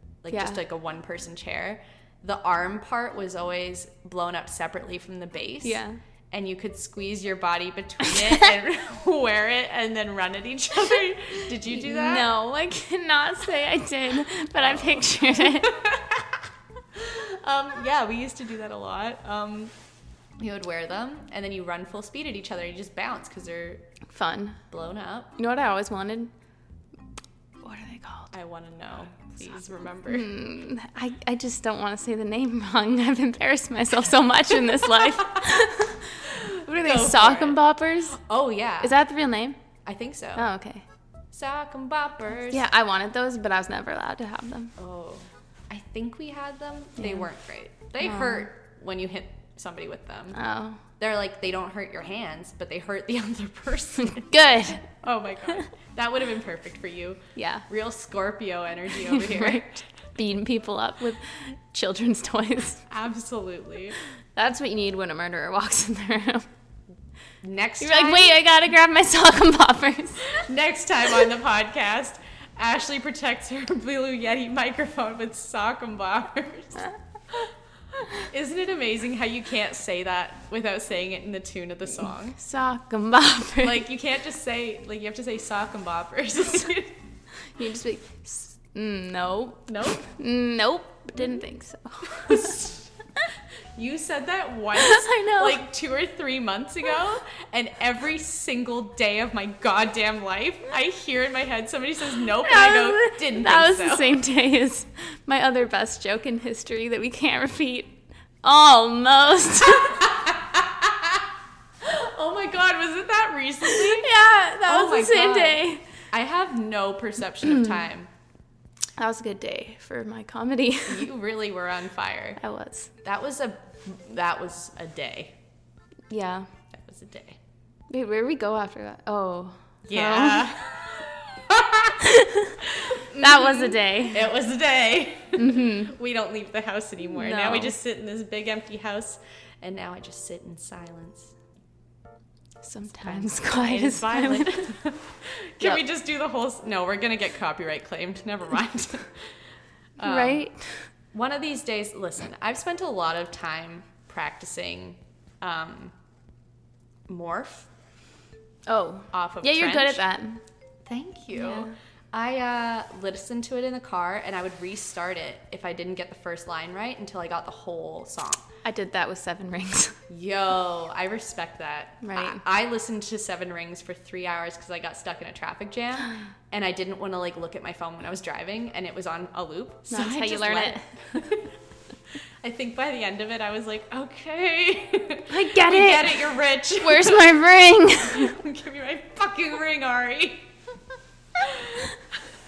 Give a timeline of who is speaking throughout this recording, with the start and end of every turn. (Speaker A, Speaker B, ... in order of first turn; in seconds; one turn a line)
Speaker A: 0.2-12.3
Speaker B: 0.3-0.6
Speaker B: 5.6-6.0
Speaker B: 11.6-15.8
Speaker A: 14.6-16.4
Speaker A: 16.9-19.7
Speaker A: 20.4-23.9
Speaker B: 24.1-24.6
Speaker A: 24.7-25.3
Speaker B: 25.4-26.3
Speaker B: 27.6-28.3
Speaker A: 28.3-30.3
Speaker B: 30.0-38.2
Speaker A: 35.2-35.6
Speaker A: 36.2-39.0
Speaker B: 38.8-39.6
Speaker A: 39.9-40.5
Speaker B: 40.3-40.8
Speaker A: 41.3-42.7
Speaker B: 42.5-44.7
Speaker A: 44.8-50.4
Speaker B: 47.0-47.3
Speaker B: 48.0-48.4
Speaker B: 50.3-50.8
Speaker A: 51.0-54.3
Speaker B: 54.1-54.8
Speaker A: 54.9-59.9
Speaker B: 57.4-57.6
Speaker B: 59.0-62.8
Speaker A: 62.9-64.0
Speaker B: 64.3-66.5
Speaker A: 67.4-68.4
Speaker B: 67.8-70.3
Speaker A: 70.3-77.5
Speaker A: 78.0-82.4
Speaker B: 82.3-83.8
Speaker A: 83.6-87.0
Speaker B: 87.5-92.6
Speaker A: 89.7-90.1
Speaker A: 92.1-92.9
Speaker A: 93.8-104.2
Speaker B: 94.7-95.6
Speaker B: 102.4-110.1
Speaker A: 109.7-111.2
Speaker A: 111.8-114.1
Speaker B: 113.6-115.8
Speaker A: 114.7-118.1
Speaker B: 117.4-117.8
Speaker B: 119.0-121.1
Speaker A: 120.9-122.4
Speaker B: 122.4-122.9
Speaker A: 123.0-125.3
Speaker B: 126.1-126.5
Speaker A: 126.7-127.4
Speaker B: 127.9-130.6
Speaker A: 129.9-132.0
Speaker B: 132.0-134.3
Speaker A: 132.6-141.3
Speaker B: 135.4-135.9
Speaker B: 137.1-137.7
Speaker B: 142.6-144.7
Speaker A: 142.9-149.2
Speaker A: 150.0-150.5
Speaker B: 150.0-150.9
Speaker A: 151.1-155.9
Speaker A: 157.1-157.7
Speaker B: 158.7-160.4
Speaker A: 159.1-160.0
Speaker A: 160.8-168.4
Speaker B: 161.3-161.7
Speaker B: 168.6-170.0
Speaker A: 170.1-181.5
Speaker B: 172.0-172.4
Speaker B: 179.9-180.8
Speaker A: 182.4-187.4
Speaker B: 185.3-188.3
Speaker A: 188.0-190.5
Speaker A: 191.3-192.0